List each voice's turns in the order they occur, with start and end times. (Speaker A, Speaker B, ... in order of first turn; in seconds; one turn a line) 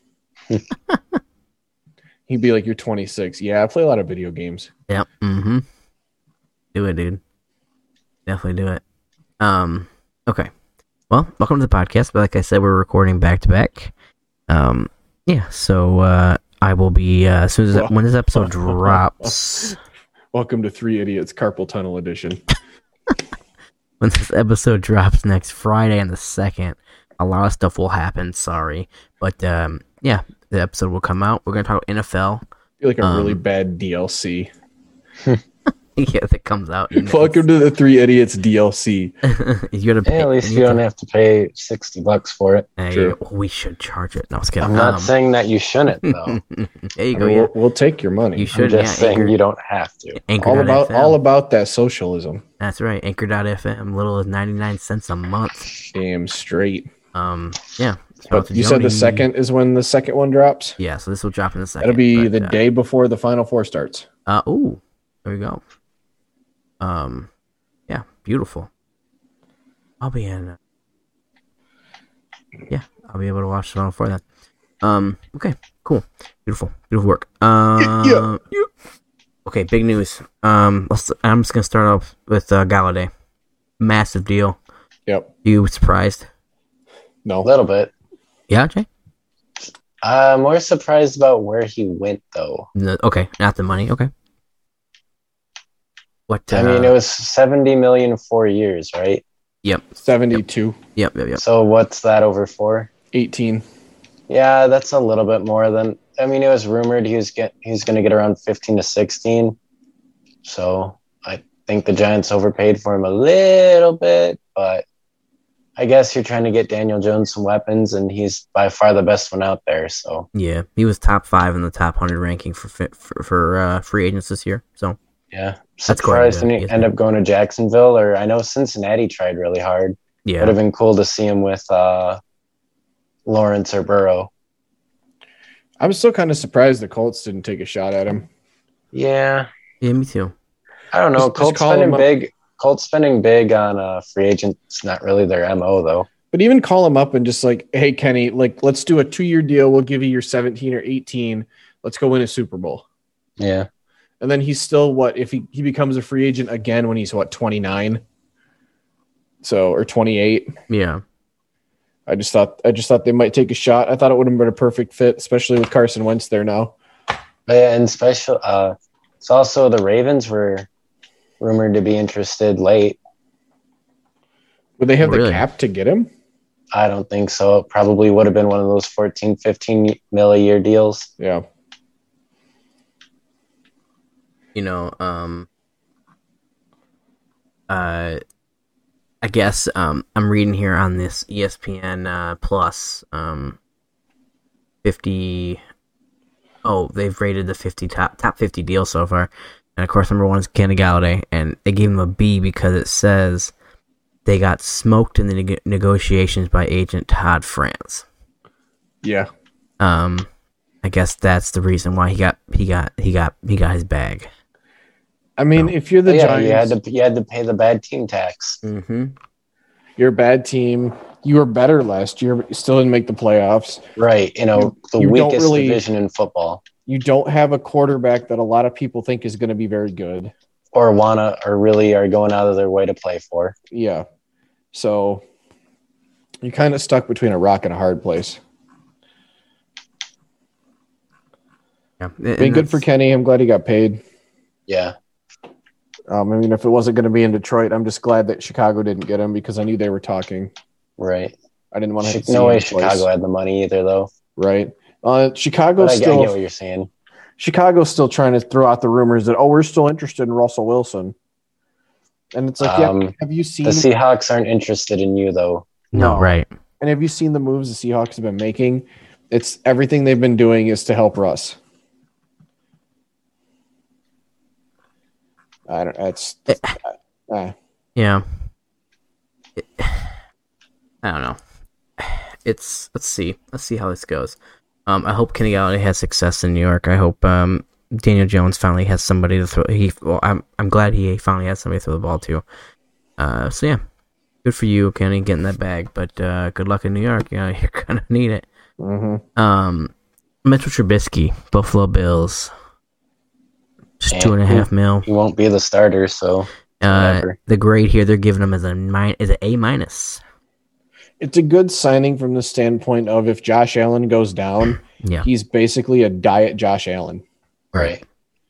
Speaker A: 2.3-4.7
Speaker B: 4.9-5.6
Speaker B: 6.7-7.2
Speaker B: 8.2-8.8
Speaker B: 9.4-10.5
Speaker B: 11.1-13.9
Speaker B: 14.5-19.8
Speaker A: 17.7-19.7
Speaker A: 20.3-22.4
Speaker B: 24.0-32.4
Speaker A: 32.8-34.5
Speaker B: 33.0-33.4
Speaker B: 36.0-37.4
Speaker A: 36.9-39.1
Speaker B: 39.2-40.8
Speaker C: 40.0-42.7
Speaker B: 42.8-45.1
Speaker A: 42.9-43.1
Speaker C: 44.6-46.4
Speaker B: 45.9-47.5
Speaker A: 47.1-48.5
Speaker B: 48.4-49.3
Speaker C: 48.5-50.2
Speaker B: 50.2-51.2
Speaker A: 50.4-52.4
Speaker B: 52.6-55.7
Speaker A: 55.9-56.9
Speaker B: 57.1-59.3
Speaker A: 58.3-60.8
Speaker B: 60.8-62.6
Speaker A: 61.8-64.0
Speaker B: 64.3-65.6
Speaker B: 66.8-67.3
Speaker B: 67.9-68.7
Speaker B: 70.0-70.6
Speaker B: 72.7-74.2
Speaker B: 74.8-78.7
Speaker A: 77.8-78.3
Speaker B: 79.5-83.1
Speaker B: 83.8-84.6
Speaker B: 85.4-86.3
Speaker C: 87.4-87.9
Speaker B: 88.5-88.8
Speaker C: 90.0-92.7
Speaker B: 92.7-94.1
Speaker B: 96.3-96.9
Speaker C: 96.5-99.2
Speaker B: 99.6-100.4
Speaker A: 100.0-100.8
Speaker B: 101.0-101.4
Speaker C: 101.4-102.9
Speaker A: 103.1-103.6
Speaker C: 104.3-109.6
Speaker C: 110.4-114.8
Speaker C: 115.8-120.3
Speaker B: 120.3-125.0
Speaker C: 125.3-132.2
Speaker B: 125.9-126.9
Speaker B: 130.2-130.6
Speaker C: 133.2-134.3
Speaker A: 135.8-138.3
Speaker C: 138.9-139.5
Speaker B: 139.8-140.3
Speaker C: 140.9-146.1
Speaker A: 141.2-142.1
Speaker A: 146.3-152.8
Speaker C: 153.4-153.7
Speaker A: 154.2-158.0
Speaker A: 159.4-160.5
Speaker B: 160.7-161.0
Speaker A: 162.1-166.7
Speaker C: 167.5-170.7
Speaker C: 171.4-173.0
Speaker A: 174.8-176.1
Speaker B: 175.0-175.4
Speaker C: 176.7-181.1
Speaker A: 181.2-181.4
Speaker B: 184.5-185.5
Speaker B: 187.7-188.2
Speaker B: 189.2-193.6
Speaker B: 194.8-195.6
Speaker B: 196.6-203.5
Speaker B: 204.2-208.0
Speaker A: 209.0-209.3
Speaker B: 209.8-210.3
Speaker B: 210.8-214.3
Speaker A: 215.4-216.7
Speaker C: 216.1-218.6
Speaker B: 218.6-219.1
Speaker A: 220.0-223.8
Speaker C: 224.0-226.6
Speaker A: 224.6-225.8
Speaker A: 226.8-230.3
Speaker C: 230.7-233.5
Speaker A: 233.7-234.0
Speaker A: 234.7-235.2
Speaker A: 236.4-238.4
Speaker B: 242.0-242.8
Speaker A: 242.4-244.0
Speaker C: 244.7-244.9
Speaker A: 246.1-250.5
Speaker C: 251.0-251.3
Speaker A: 251.7-253.1
Speaker C: 252.0-254.1
Speaker A: 254.4-256.4
Speaker C: 255.8-256.9
Speaker A: 257.4-261.1
Speaker A: 262.3-263.9
Speaker C: 262.6-265.7
Speaker B: 265.9-266.5
Speaker A: 265.9-271.6
Speaker A: 275.7-277.5
Speaker B: 276.5-276.7
Speaker B: 277.9-278.2
Speaker B: 279.6-280.2
Speaker B: 281.0-281.4
Speaker B: 282.0-292.4
Speaker B: 293.2-293.8
Speaker B: 294.4-298.4
Speaker A: 298.8-299.2
Speaker B: 299.4-299.9
Speaker B: 300.4-302.5
Speaker B: 304.0-305.1
Speaker C: 304.1-307.4
Speaker B: 306.8-310.2
Speaker A: 311.2-317.2
Speaker B: 314.8-315.3
Speaker C: 317.7-318.0